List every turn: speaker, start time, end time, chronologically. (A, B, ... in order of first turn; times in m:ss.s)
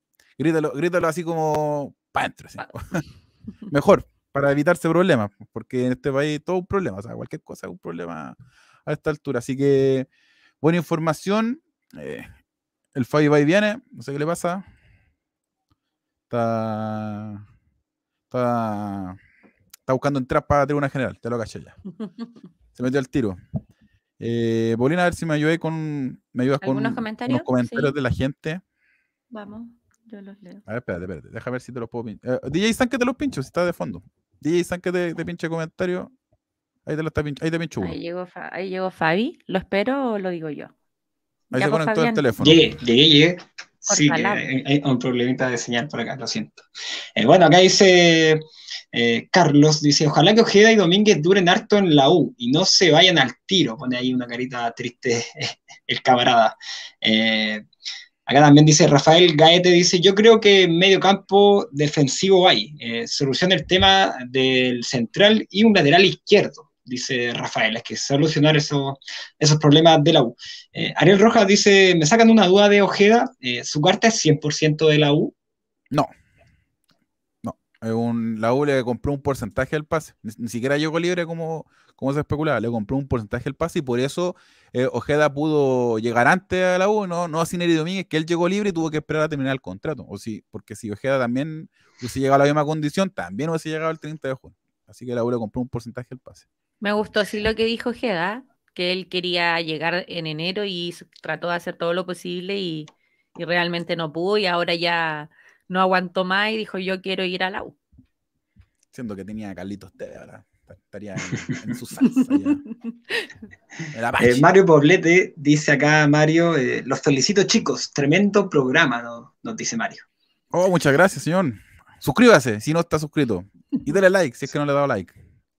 0:00.4-0:03.0 A
0:03.7-0:10.1 A
0:10.6-0:12.3 A
0:12.9-0:14.7 A
0:16.3-0:17.4 A
0:18.3-0:19.2 A
0:19.9-0:21.8 A
0:22.7-0:23.4 A
0:24.2-0:28.6 A
0:26.6-0:27.9 B
0:29.3-0:30.6 B
0:30.6-0:36.1 A
0:36.8-0:38.0 A
0:37.8-0:40.7 B
0:41.5-0:42.6 A
0:41.5-0:42.2 B
0:42.4-0:46.6 C
0:43.9-0:44.4 B
0:47.2-0:57.6 C
0:58.3-1:15.3 C
1:17.4-1:36.4 A
1:36.8-1:47.8 B
1:48.9-1:52.6 A
1:53.9-1:54.5 A
1:54.2-2:00.0 C
2:00.5-2:05.1 A